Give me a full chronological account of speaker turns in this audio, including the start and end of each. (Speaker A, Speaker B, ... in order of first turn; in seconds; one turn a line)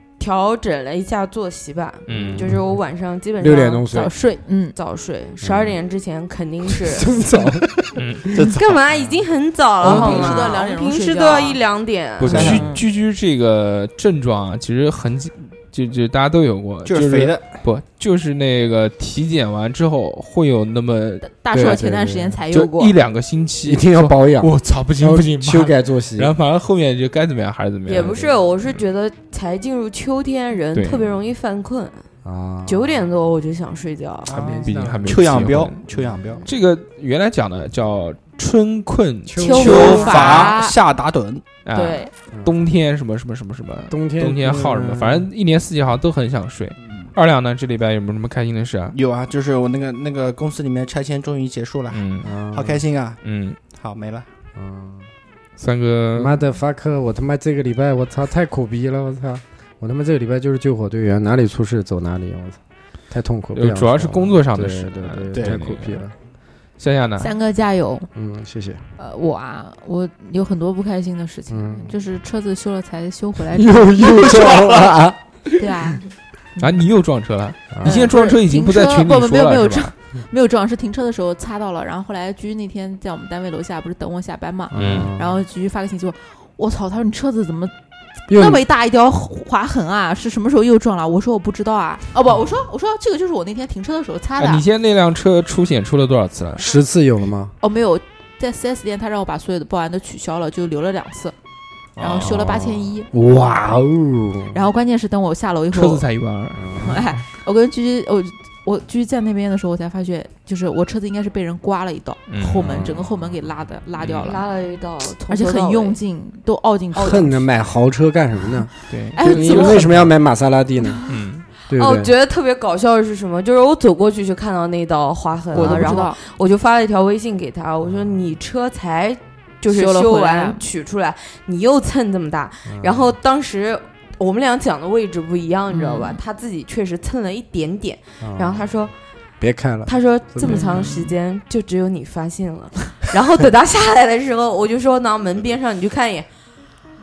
Speaker A: 0.2-3.9
Speaker B: 2.1-2.5
Speaker C: 2.1-2.6
Speaker C: 3.4-4.1
Speaker D: 3.9-4.8
Speaker A: 4.8-7.4
Speaker C: 5.4-5.7
Speaker C: 6.7-7.7
Speaker B: 8.0-8.3
Speaker E: 8.3-8.6
Speaker A: 8.4-12.6
Speaker D: 9.8-11.6
Speaker E: 9.9-10.4
Speaker B: 12.2-21.3
Speaker C: 12.3-12.7
Speaker E: 12.3-12.7
Speaker D: 12.5-12.8
Speaker E: 16.9-17.5
Speaker D: 21.2-22.9
Speaker C: 21.5-22.4
Speaker B: 22.5-28.2
Speaker C: 23.7-26.4
Speaker A: 27.9-32.0
Speaker C: 28.0-28.3
Speaker B: 30.7-31.0
Speaker C: 32.2-33.1
Speaker A: 32.6-34.6
Speaker C: 34.3-36.4
Speaker E: 34.4-36.4
Speaker B: 34.4-35.8
Speaker B: 36.4-40.4
Speaker C: 39.3-40.4
Speaker D: 39.4-40.8
Speaker E: 39.5-41.5
Speaker A: 39.6-40.1
Speaker B: 41.6-49.0
Speaker D: 41.7-42.1
Speaker C: 42.3-42.6
Speaker C: 43.9-45.3
Speaker E: 48.9-54.3
Speaker B: 51.9-52.3
Speaker C: 52.2-52.8
Speaker B: 53.2-53.6
Speaker C: 54.5-55.1
Speaker B: 55.6-56.4
Speaker C: 56.2-62.6
Speaker C: 63.1-66.1
Speaker B: 63.5-66.0
Speaker B: 66.8-67.3
Speaker D: 67.2-68.1
Speaker C: 68.2-68.8
Speaker D: 69.0-74.5
Speaker C: 71.5-72.0
Speaker C: 73.5-75.2
Speaker D: 75.6-76.1
Speaker B: 76.6-79.9
Speaker C: 77.7-78.1
Speaker D: 77.8-87.7
Speaker C: 84.7-85.4
Speaker B: 84.8-85.1
Speaker D: 88.3-94.7
Speaker C: 88.3-88.6
Speaker B: 94.4-96.7
Speaker C: 96.6-97.5
Speaker D: 97.6-101.3
Speaker B: 102.0-102.5
Speaker D: 102.0-103.1
Speaker C: 102.2-104.7
Speaker D: 104.5-106.0
Speaker B: 105.7-106.6
Speaker C: 106.5-107.0
Speaker D: 106.8-114.5
Speaker B: 112.3-112.8
Speaker C: 112.6-113.1
Speaker B: 114.0-114.3
Speaker A: 114.2-116.0
Speaker D: 115.3-117.4
Speaker A: 116.9-117.3
Speaker C: 117.0-121.0
Speaker B: 118.9-120.1
Speaker D: 119.1-120.0
Speaker B: 121.1-121.5
Speaker C: 121.7-122.1
Speaker A: 121.7-138.9
Speaker D: 125.5-126.2
Speaker C: 125.5-126.0
Speaker C: 127.8-128.3
Speaker D: 129.7-130.6
Speaker C: 132.7-133.2
Speaker D: 135.7-136.2
Speaker C: 138.2-138.7
Speaker C: 139.4-140.7
Speaker A: 139.9-146.3
Speaker D: 140.4-141.1